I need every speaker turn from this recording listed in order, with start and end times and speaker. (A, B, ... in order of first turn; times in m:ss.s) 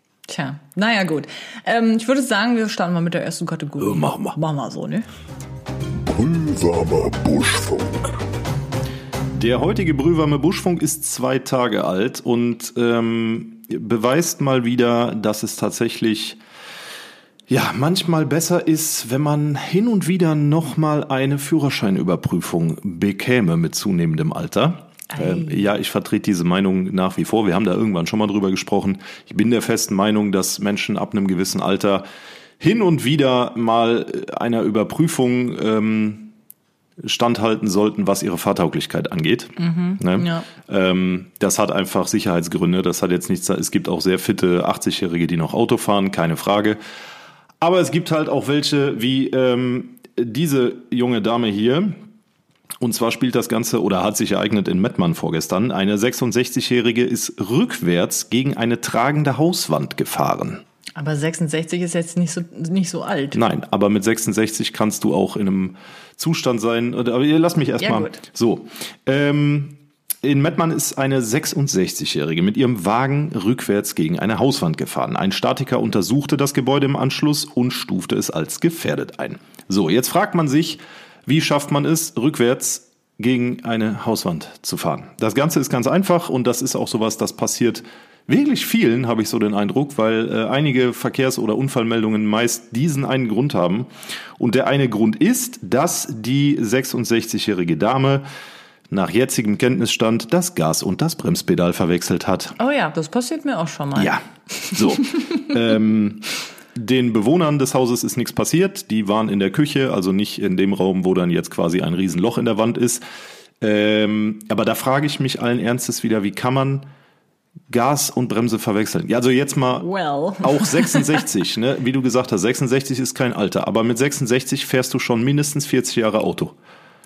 0:00.3-0:05.1 A
0:03.8-0:04.4 B
0:06.0-0:08.2 C
0:09.3-0:16.4 B
0:17.5-0:32.0 B
0:25.1-0:25.7 A
0:32.6-0:36.3 B
0:37.0-0:46.8 B
0:39.6-0:40.5 A
0:47.6-0:52.0 B
0:52.8-1:00.6 B
1:01.0-1:03.4 A
1:03.3-1:38.2 B
1:07.8-1:08.2 A
1:38.9-1:42.5 B
1:42.6-1:44.2 A
1:43.9-1:53.0 B
1:44.8-1:45.0 A
1:53.6-1:56.8 B
1:57.7-1:59.9 B
1:59.8-2:01.2 A
2:00.4-2:06.6 B